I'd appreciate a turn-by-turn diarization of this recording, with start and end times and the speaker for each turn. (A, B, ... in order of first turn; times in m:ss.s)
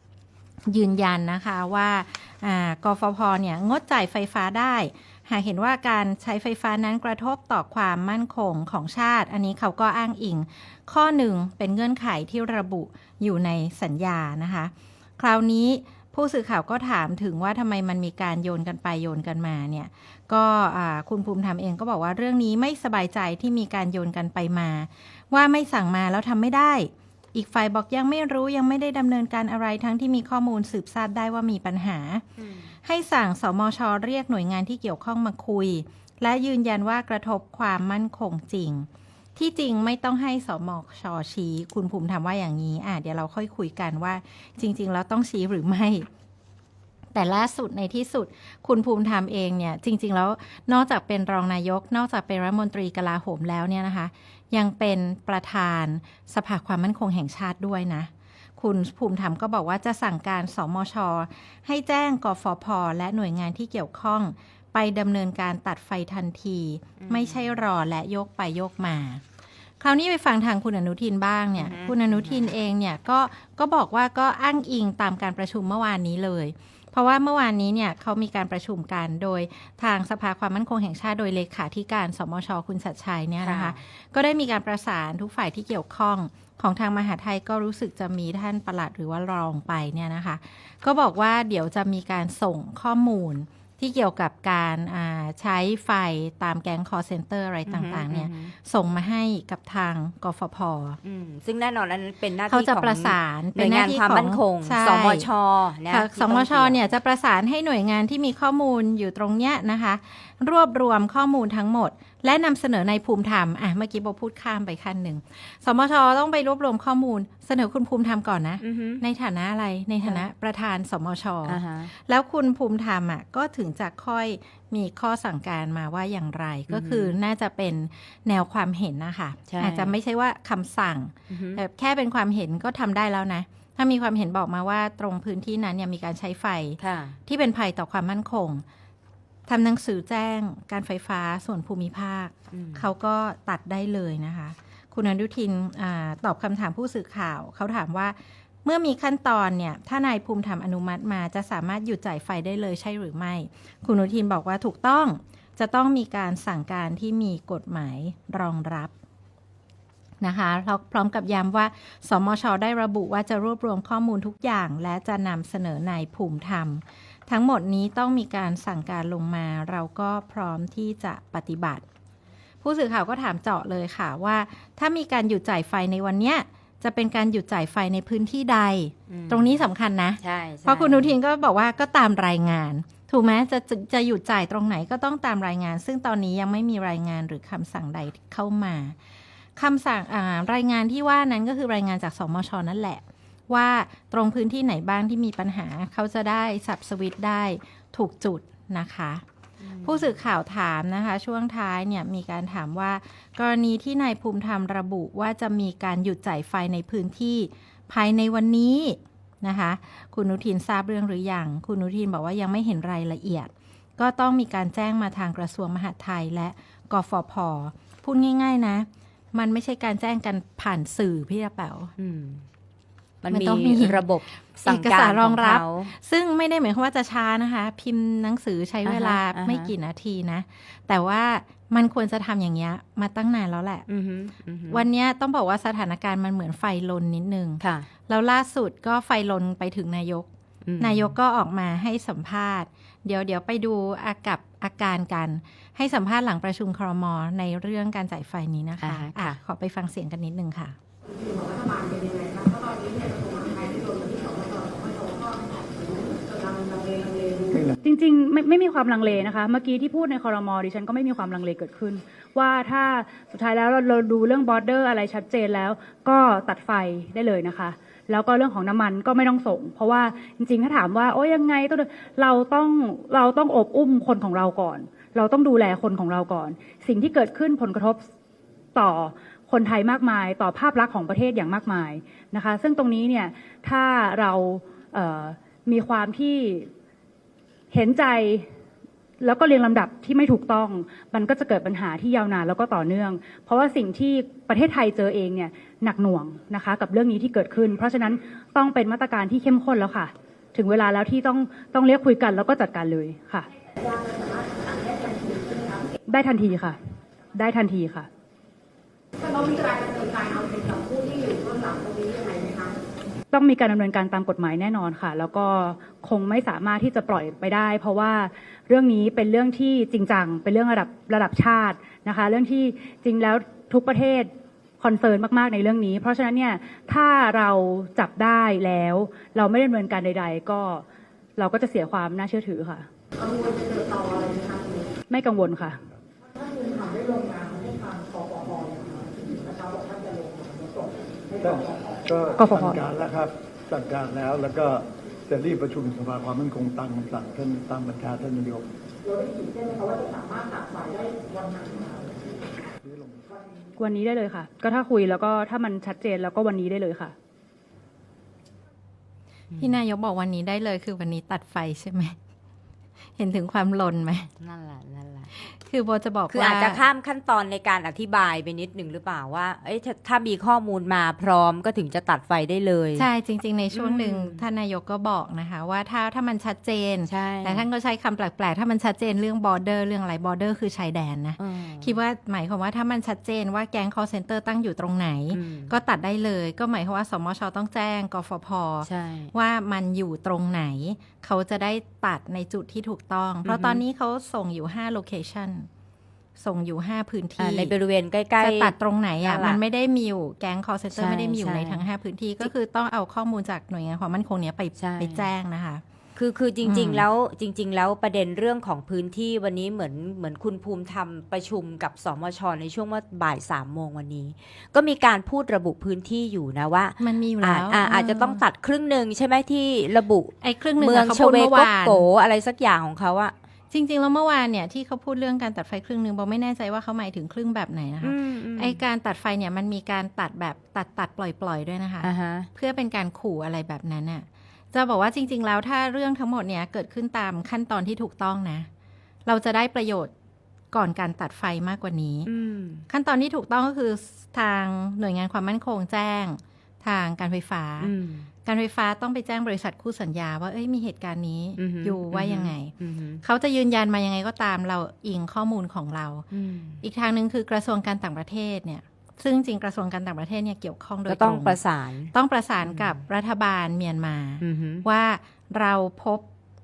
0:00.7-0:32.3 A
0:32.4-0:32.7 B
0:32.8-0:46.1 A
0:47.1-1:09.2 A
1:07.0-1:07.6 B
1:09.8-1:41.0 A
1:11.6-1:12.6 B
1:23.4-1:23.8 B
1:37.7-1:38.5 B
1:41.0-1:46.8 B
1:42.5-1:45.3 A
1:45.9-2:18.6 A
1:58.6-1:59.0 B
2:01.5-2:01.9 B
2:06.7-2:07.2 B
2:09.5-2:10.0 B
2:11.3-2:11.6 B
2:16.8-2:17.2 B
2:19.5-2:38.9 A
2:22.5-2:22.9 B
2:40.2-2:51.8 A
2:52.6-3:09.0 A
2:59.1-2:59.6 B
3:00.2-3:01.2 B
3:09.6-3:19.2 A
3:19.6-3:20.2 B
3:19.8-3:41.9 A
3:42.0-3:42.4 B
3:43.2-3:45.9 B
3:43.3-3:44.0 A
3:44.6-3:53.9 A
3:48.8-3:49.7 B
3:53.9-3:54.9 B
3:54.7-4:00.3 A
3:57.6-3:57.9 B
4:00.6-4:01.1 B
4:00.8-4:10.8 A
4:08.8-4:09.4 B
4:11.3-4:15.4 C
4:16.1-4:17.5 C
4:17.8-4:38.0 D
4:38.8-4:46.7 D
4:47.7-4:48.5 D
4:49.2-5:03.5 D
5:04.6-5:05.8 C
5:06.1-5:06.8 D
5:07.4-5:08.1 D
5:09.2-5:12.7 C
5:13.3-5:30.8 D
5:31.4-5:32.9 D
5:33.2-5:34.8 C
5:35.1-5:35.8 D
5:36.4-5:40.9 C
5:41.4-5:48.7 E
5:42.4-5:42.8 D
5:49.1-5:51.9 C
5:52.8-5:53.3 E
5:53.8-5:57.1 D
5:59.5-5:59.8 B
5:59.6-6:02.2 A
6:03.2-6:04.3 A
6:04.4-6:05.3 B
6:05.4-6:06.8 A
6:06.3-6:13.1 B
6:13.0-6:35.7 A
6:13.7-6:14.4 B
6:17.0-6:17.7 B
6:21.4-6:22.0 B
6:25.3-6:25.8 B
6:28.8-6:29.3 B
6:33.4-6:33.8 B
6:36.4-6:37.7 A
6:37.4-6:39.6 B
6:38.4-6:45.8 A
6:40.9-6:41.9 B
6:44.8-6:45.3 B
6:46.2-7:03.3 B
6:46.6-6:47.1 A
6:57.0-6:58.4 A
7:00.4-7:02.1 A
7:03.7-7:18.7 A
7:08.0-7:08.8 B
7:12.0-7:12.5 B
7:19.3-7:20.1 A
7:20.7-7:22.3 A
7:22.3-7:22.9 B
7:22.9-7:27.9 A
7:27.8-7:28.3 B
7:28.4-7:36.3 A
7:31.6-7:33.2 B
7:36.3-7:36.8 B
7:36.8-7:41.6 A
7:41.1-7:42.1 B
7:42.1-7:46.2 A
7:42.6-7:43.0 B
7:44.4-7:44.8 B